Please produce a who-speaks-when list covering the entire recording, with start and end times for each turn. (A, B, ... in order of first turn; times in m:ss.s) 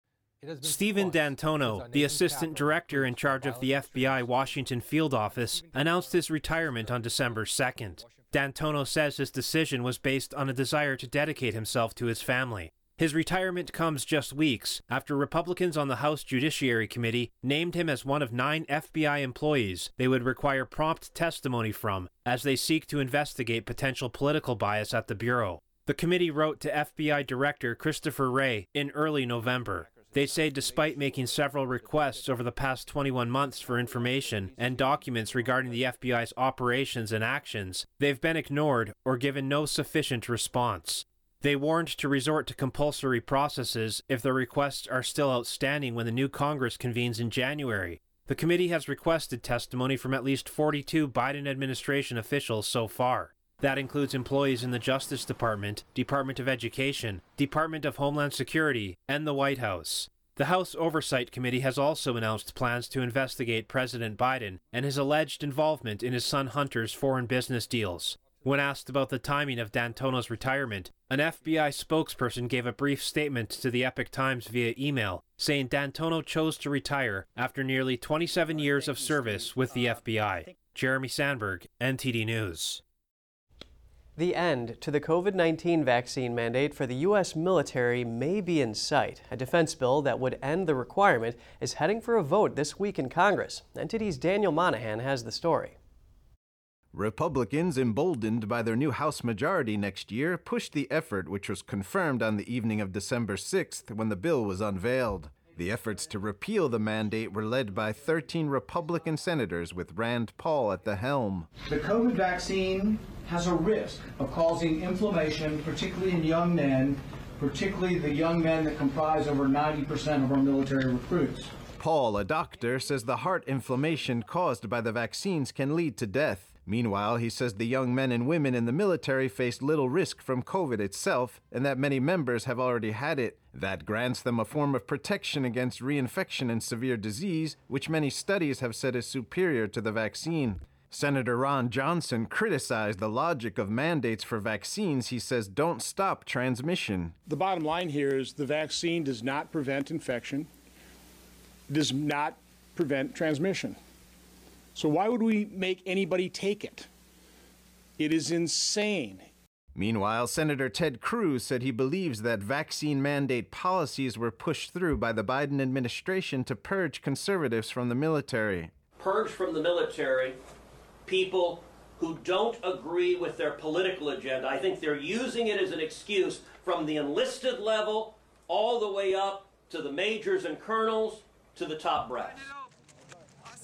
0:00.6-1:22.8 A
1:24.2-1:35.7 B
1:36.9-1:51.5 C
1:51.6-2:01.5 D
2:01.8-2:27.1 C
2:27.2-2:30.5 E
2:31.7-2:33.8 E
2:34.7-2:36.9 E
2:38.0-2:39.3 E
2:39.7-2:48.7 C
2:49.0-2:50.4 F
2:51.0-3:02.4 F